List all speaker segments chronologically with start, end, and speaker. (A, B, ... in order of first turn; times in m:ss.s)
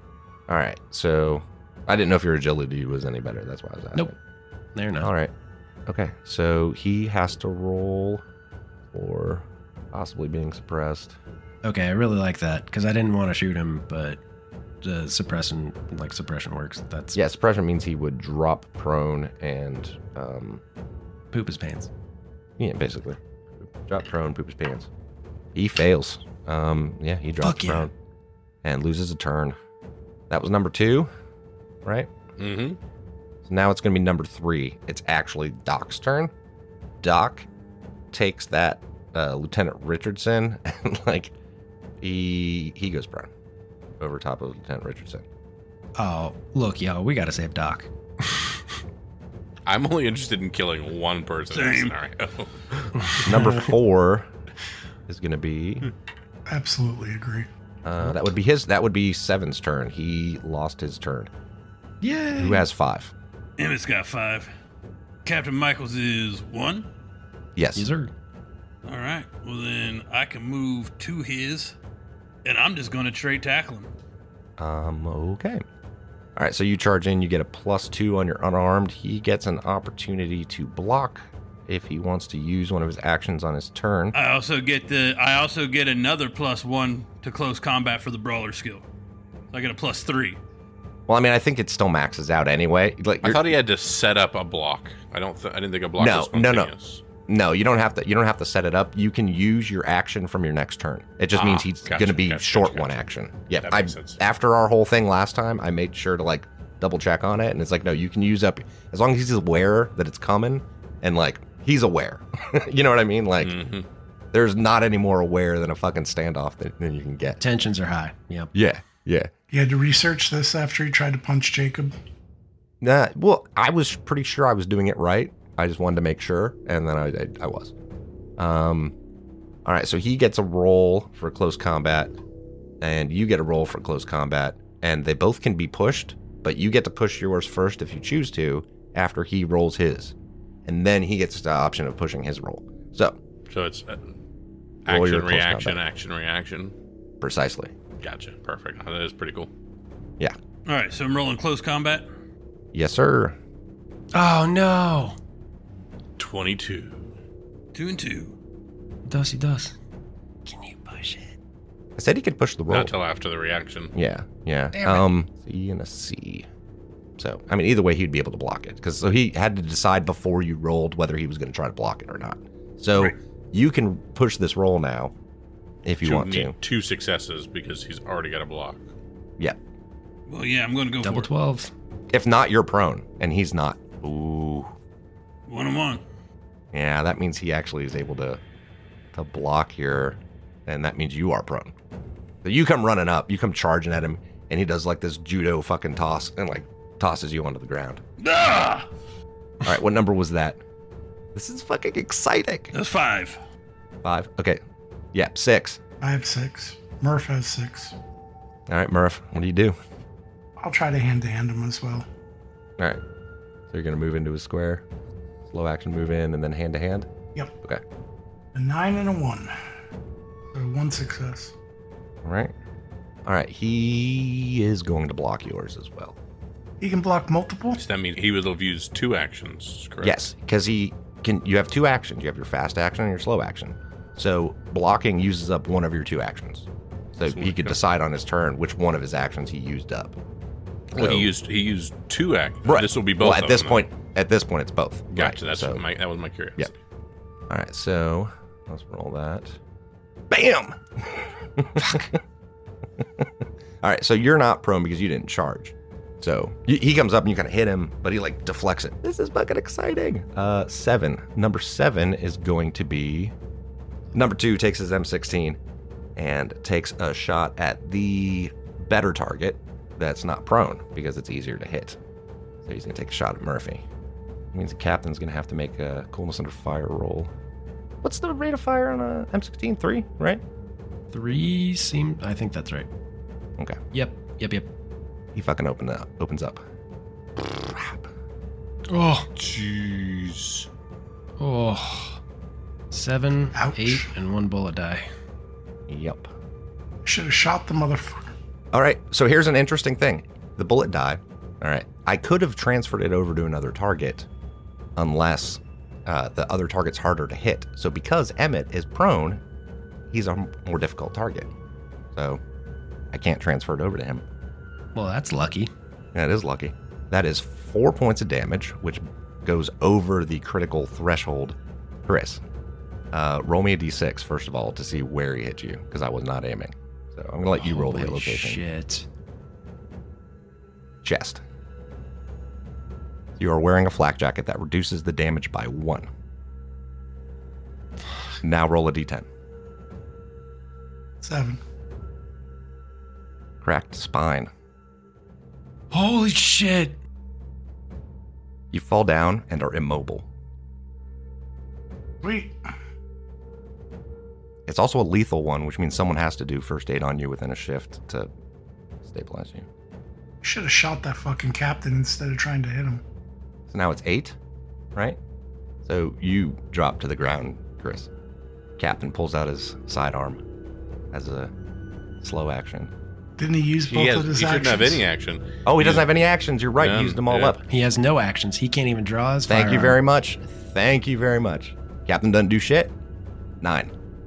0:00.5-0:04.2 A
0:04.7-0:05.1 B
0:05.0-0:05.3 A
0:05.9-0:08.2 A
0:08.9-0:11.2 A
0:11.6-0:14.2 B
0:14.8-0:17.2 B
0:17.1-0:20.6 A
0:21.3-0:21.9 B
0:22.6-0:24.9 A
0:25.5-0:27.9 A
0:27.4-0:27.9 B
0:28.6-0:29.5 A
0:30.3-0:31.1 A
0:31.8-0:32.1 A
0:32.4-0:32.8 C
0:33.4-0:36.3 A
0:37.0-0:37.5 A
0:38.1-0:41.3 A
0:42.0-0:43.3 A
0:44.0-0:45.2 A
0:46.0-0:48.6 B
0:49.6-0:52.9 C
0:51.5-0:51.9 D
0:53.0-0:53.7 B
0:53.2-0:54.3 A
0:55.1-0:55.9 A
0:56.5-0:57.5 E
0:57.8-1:01.3 A
1:02.0-1:02.6 B
1:02.4-1:03.1 A
1:03.6-1:04.5 D
1:05.2-1:06.9 D
1:07.6-1:07.9 A
1:07.7-1:08.1 B
1:08.8-1:11.8 D
1:12.4-1:13.9 D
1:14.6-1:15.6 A
1:16.4-1:24.1 A
1:24.1-1:28.8 D
1:29.5-1:30.4 D
1:31.1-1:33.5 A
1:33.2-1:37.0 C
1:36.0-1:36.7 A
1:37.3-1:53.6 A
1:41.3-1:43.0 C
1:43.6-1:44.2 C
1:53.4-1:53.8 C
1:54.3-1:57.4 A
1:57.4-1:58.5 B
1:58.5-1:59.3 A
1:59.5-2:01.9 E
2:02.8-2:07.7 A
2:08.4-2:08.9 A
2:09.6-2:12.1 A
2:12.8-2:20.1 A
2:20.6-2:23.2 A
2:23.5-2:24.1 C
2:24.8-2:25.8 A
2:24.8-2:26.7 C
2:27.2-2:27.7 A
2:28.0-2:29.5 C
2:30.6-2:32.0 D
2:32.7-2:33.4 A
2:34.1-2:35.2 B
2:36.2-2:37.0 C
2:37.7-2:38.3 D
2:39.0-2:39.7 B
2:40.4-2:41.4 B
2:42.0-2:42.9 A
2:42.7-2:43.9 C
2:43.9-2:46.5 A
2:44.7-2:45.0 B
2:47.2-2:55.1 A
2:55.8-2:56.5 A
2:56.0-2:58.9 C
3:00.3-3:01.3 D
3:01.0-3:01.7 B
3:02.1-3:04.7 A
3:05.5-3:06.0 D
3:06.7-3:08.4 A
3:09.1-3:11.7 A
3:12.4-3:18.0 A
3:18.2-3:18.9 D
3:19.6-3:20.6 A
3:21.3-3:22.7 A
3:22.7-3:23.4 D
3:24.0-3:24.6 A
3:25.1-3:25.8 A
3:26.0-3:27.9 E
3:28.7-3:29.8 A
3:30.6-3:32.0 E
3:33.7-3:34.8 A
3:35.5-3:37.1 A
3:38.5-3:39.5 E
3:40.5-3:41.5 E
3:42.2-3:42.5 A
3:43.2-3:46.2 A
3:46.8-3:47.8 E
3:47.8-3:50.3 C
3:50.0-4:00.2 A
3:57.2-3:57.8 C
4:00.9-4:01.3 A
4:00.9-4:03.9 C
4:02.6-4:05.8 A
4:05.1-4:06.7 C
4:07.5-4:09.6 A
4:10.3-4:12.2 A
4:13.0-4:23.3 A
4:24.1-4:25.6 A
4:26.2-4:32.0 A
4:32.6-4:33.8 A
4:34.5-4:37.3 A
4:38.0-4:40.4 A
4:41.1-4:42.9 B
4:43.9-4:44.7 B
4:45.3-4:46.6 A
4:47.4-4:48.1 A
4:48.9-4:49.3 B
4:49.4-4:50.7 C
4:51.4-4:52.2 B
4:52.9-4:55.1 B
4:53.5-4:54.1 E
4:55.9-4:56.3 A
4:57.0-4:58.3 E
4:58.7-5:04.3 A
5:05.0-5:09.4 A
5:10.1-5:11.5 A
5:12.1-5:12.4 A
5:13.1-5:14.2 A
5:14.9-5:15.7 B
5:16.1-5:22.4 A
5:23.1-5:28.6 A
5:27.6-5:29.1 B
5:31.0-5:31.4 A
5:33.4-5:36.1 A
5:38.4-5:39.2 A
5:41.2-5:41.6 E
5:43.6-5:44.5 A
5:45.9-5:47.0 B
5:48.7-5:50.2 A
5:52.2-5:52.6 E
5:54.6-5:58.3 A
5:59.0-5:59.7 A
6:00.4-6:03.0 E
6:03.7-6:04.4 A
6:05.8-6:08.1 A
6:08.8-6:10.4 A
6:11.1-6:11.5 A
6:12.2-6:12.9 A
6:13.4-6:15.0 E
6:13.9-6:16.1 C
6:15.6-6:17.6 A
6:16.8-6:17.6 C
6:17.7-6:20.0 B
6:19.5-6:22.9 A
6:23.6-6:23.9 A